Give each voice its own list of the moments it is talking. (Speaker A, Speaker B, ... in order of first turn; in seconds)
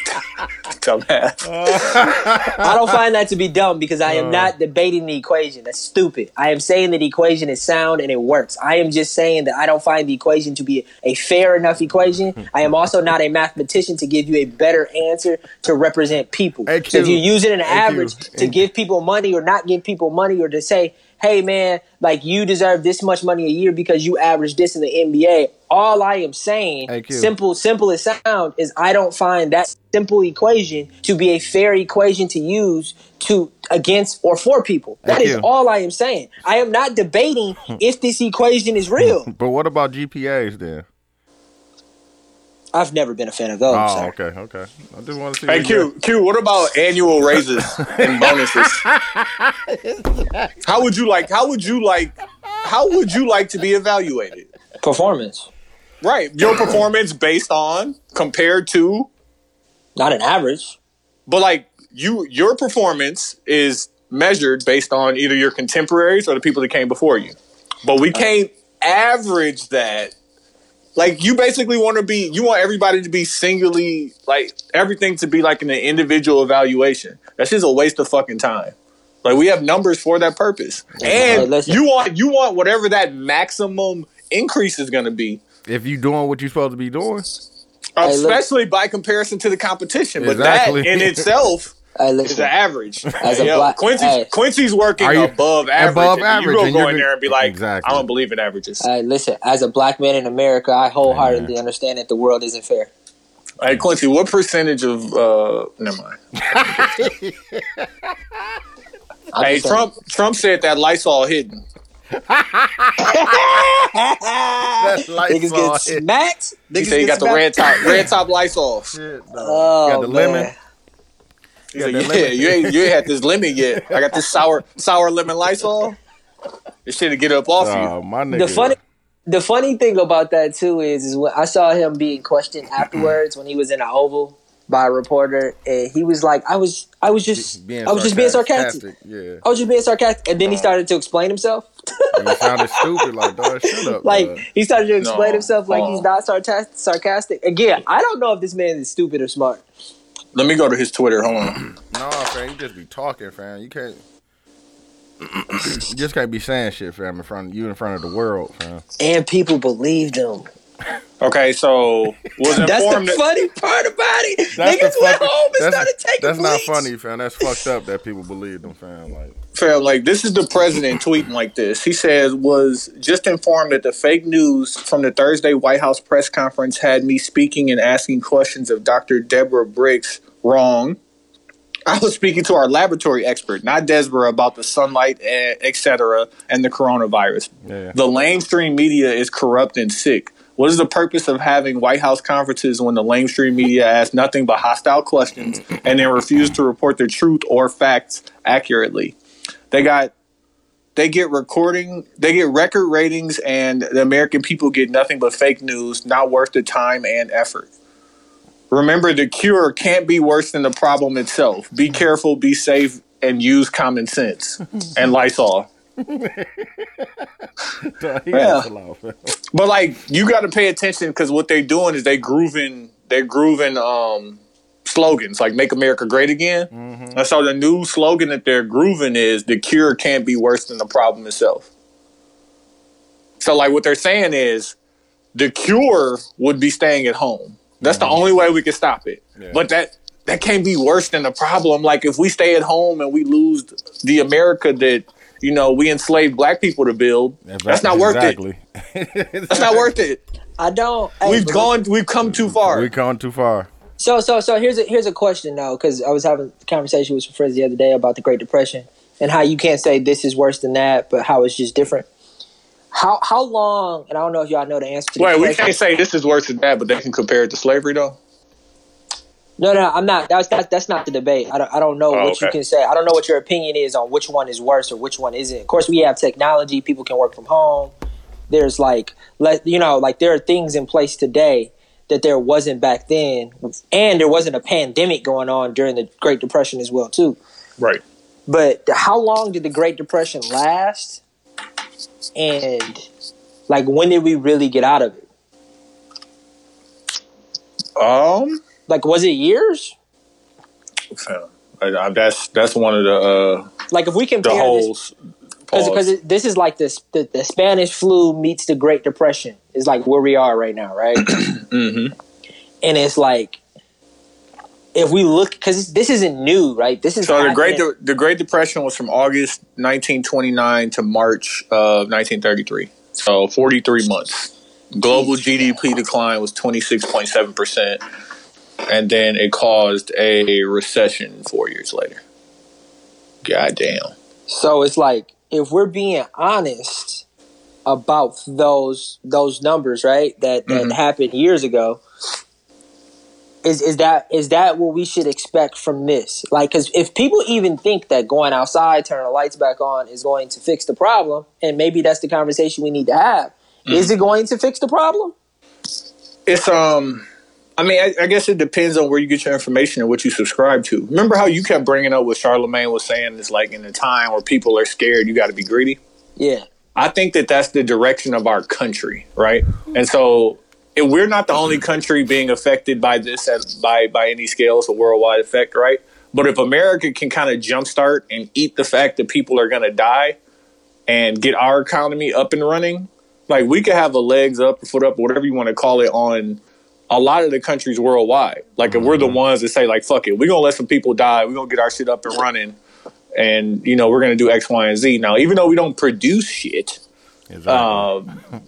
Speaker A: 0.8-2.1, 45.5-48.9, 50.6-54.5, 56.0-59.1, 61.3-70.1, 71.0-85.4, 88.0-91.8, 92.3-98.8, 103.6-106.2, 109.4-111.6, 116.8-118.9, 121.7-126.0, 126.9-127.9, 145.0-146.1, 150.3-151.7, 161.2-163.2, 169.6-181.0, 181.9-199.2, 199.7-200.1, 201.0-207.7, 208.7-215.7, 219.5-231.7, 233.4-234.8, 235.3-248.4, 249.5-250.2, 251.2-252.9, 265.2-268.2, 272.1-272.6, 298.0-298.6, 301.1-303.7, 304.4-305.1, 305.7-306.1, 311.2-312.1, 317.2-328.0, 328.9-332.2, 333.4-334.1, 340.7-341.0, 353.9-354.1, 356.5-357.2, 357.8-366.0, 366.9-380.4, 381.1-392.8, 393.4-397.0, 397.7-398.4
Speaker B: 1.4-2.8, 4.1-4.5, 16.7-18.6, 26.9-27.3, 35.0-35.5, 39.0-40.9, 43.7-45.9, 47.8-50.5, 81.0-81.5, 85.7-87.3, 90.2-91.3, 95.0-98.1, 101.0-101.5, 106.5-108.1, 112.1-113.7, 114.8-116.0, 118.9-120.5, 121.8-123.1, 123.7-124.2, 127.6-128.8, 137.3-139.4, 142.2-144.4, 151.9-154.0, 155.5-158.8, 164.6-169.3, 187.7-187.9, 216.0-219.4, 226.7-227.2, 237.8-238.2, 239.4-239.6, 247.4-249.9, 252.4-253.7, 388.9-389.4, 397.5-398.1
Speaker C: 2.5-39.3, 42.7-44.1, 54.8-55.5, 60.0-60.8, 81.0-81.8, 88.0-88.4, 92.0-92.5, 93.2-94.3, 98.8-102.9, 109.3-109.9, 113.0-118.1, 119.4-120.5, 128.3-128.8, 129.3-138.8, 139.4-143.1, 143.6-149.6, 159.0-160.5, 162.5-166.9, 218.3-218.7, 250.6-251.7, 254.0-262.1, 262.9-265.7, 269.6-277.9, 278.5-287.4, 288.5-291.2, 292.4-293.1, 293.7-295.2, 298.9-299.9, 303.9-304.9, 305.7-311.4, 312.8-313.6, 314.9-317.9, 325.1-325.4, 334.5-337.2, 337.9-342.0, 343.6-355.3, 366.4-366.6